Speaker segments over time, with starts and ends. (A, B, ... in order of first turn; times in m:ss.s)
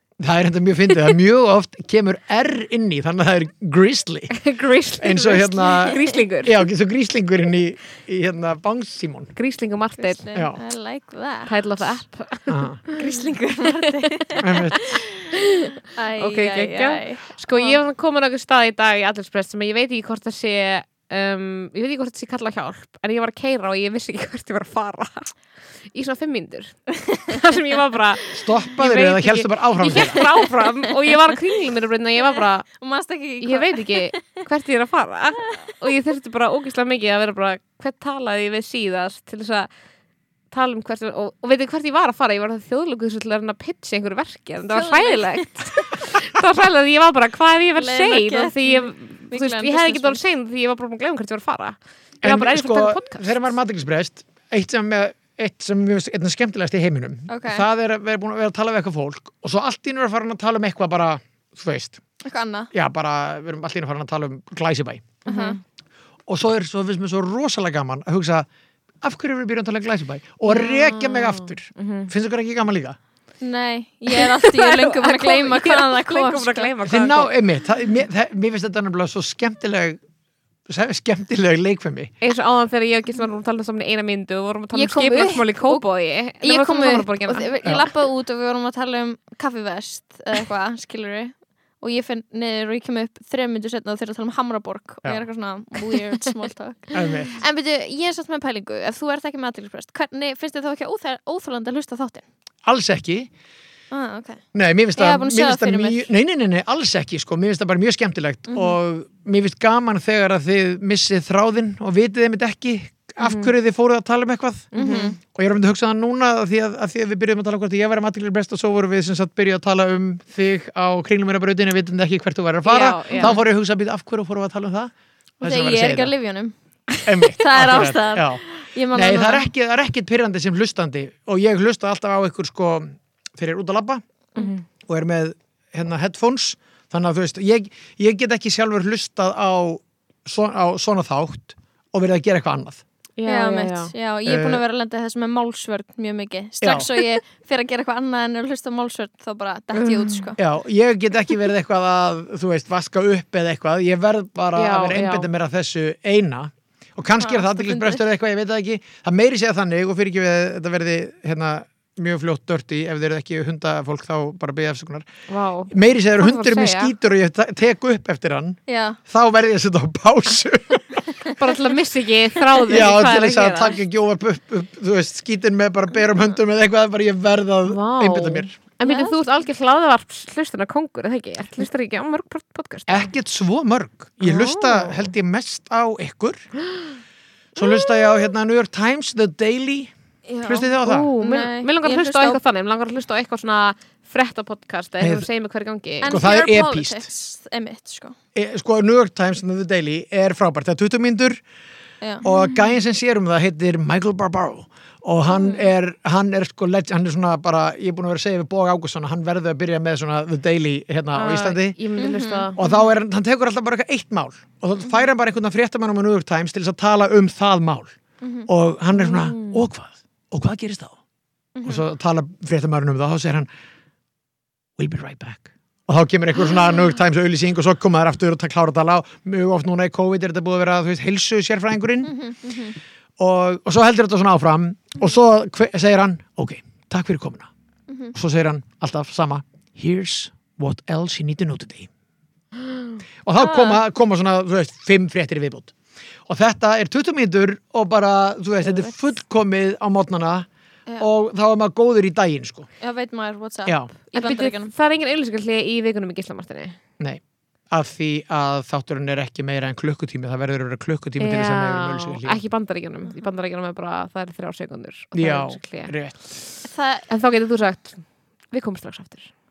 0:00.2-0:04.4 A
0:04.3-0:06.6 B
0:05.0-0:09.3 A
0:05.9-0:06.2 C
0:09.4-0:10.2 B
0:10.0-0:11.6 C
0:11.5-0:13.0 B
0:12.5-0:12.8 A
0:12.9-0:15.4 C
0:14.4-0:15.0 A
0:15.4-0:25.3 B
0:15.9-0:17.8 C
0:25.9-0:32.7 B
0:28.3-0:30.2 A
0:30.0-0:30.5 C
0:32.4-0:34.2 C
0:33.4-0:39.7 B
0:40.5-0:53.4 B
0:44.7-0:45.9 C
0:47.8-0:50.2 C
0:52.2-1:02.0 A
0:57.3-0:57.7 C
1:02.2-1:02.7 C
1:02.7-1:05.2 A
1:05.2-1:05.6 B
1:05.3-1:05.6 C
1:06.3-1:08.5 A
1:09.0-1:13.0 A
1:10.5-1:12.1 B
1:13.4-1:16.7 C
1:14.1-1:17.3 B
1:16.9-1:20.0 A
1:20.7-1:22.1 A
1:22.2-1:27.5 B
1:24.7-1:25.8 C
1:26.4-1:42.2 C
1:36.9-1:37.4 A
1:42.6-1:43.3 A
1:43.9-1:44.4 C
1:44.5-1:54.7 A
1:45.0-1:46.1 C
1:48.5-1:48.8 C
1:53.2-1:53.5 B
1:54.7-1:55.2 B
1:54.8-1:55.2 C
1:55.2-2:06.1 A
2:02.6-2:03.3 B
2:03.2-2:03.4 C
2:05.4-2:06.5 C
2:07.0-2:14.0 A
2:07.4-2:09.5 C
2:14.4-2:14.6 B
2:14.8-2:22.8 A
2:23.2-2:23.9 B
2:23.3-2:30.4 C
2:24.3-2:24.6 A
2:26.6-2:26.9 A
2:29.8-2:30.3 B
2:30.4-2:45.1 A
2:34.6-2:35.3 B
2:37.2-2:38.0 C
2:45.3-2:46.9 B
2:45.7-2:51.0 A
2:48.7-2:49.0 C
2:51.4-2:53.8 B
2:52.7-2:58.5 A
2:57.7-3:03.1 B
2:58.8-2:59.2 C
3:02.9-3:06.5 A
3:04.2-3:05.1 B
3:07.6-3:09.9 A
3:10.3-3:12.4 C
3:10.4-3:11.1 A
3:10.8-3:16.2 B
3:15.0-3:15.3 A
3:16.0-3:18.2 C
3:16.1-3:17.1 A
3:18.4-3:21.4 A
3:22.0-3:22.5 C
3:22.2-3:31.8 A
3:25.3-3:25.7 C
3:31.1-3:32.6 B
3:32.0-3:32.8 C
3:32.6-3:37.9 A
3:38.2-3:38.5 C
3:38.5-3:41.0 A
3:38.9-3:39.6 B
3:41.6-3:41.9 C
3:41.6-3:43.5 A
3:44.8-3:52.1 A
3:52.0-3:52.8 C
3:53.2-3:57.5 A
3:58.1-4:01.9 A
4:03.2-4:05.7 A
4:03.4-4:03.8 C
4:06.3-4:10.5 A
4:11.0-4:12.7 A
4:12.8-4:14.7 C
4:13.7-4:13.9 A
4:14.1-4:16.8 B
4:17.0-4:22.4 A
4:21.2-4:25.9 B
4:25.2-4:26.4 A
4:26.6-4:27.1 C
4:27.1-4:29.3 B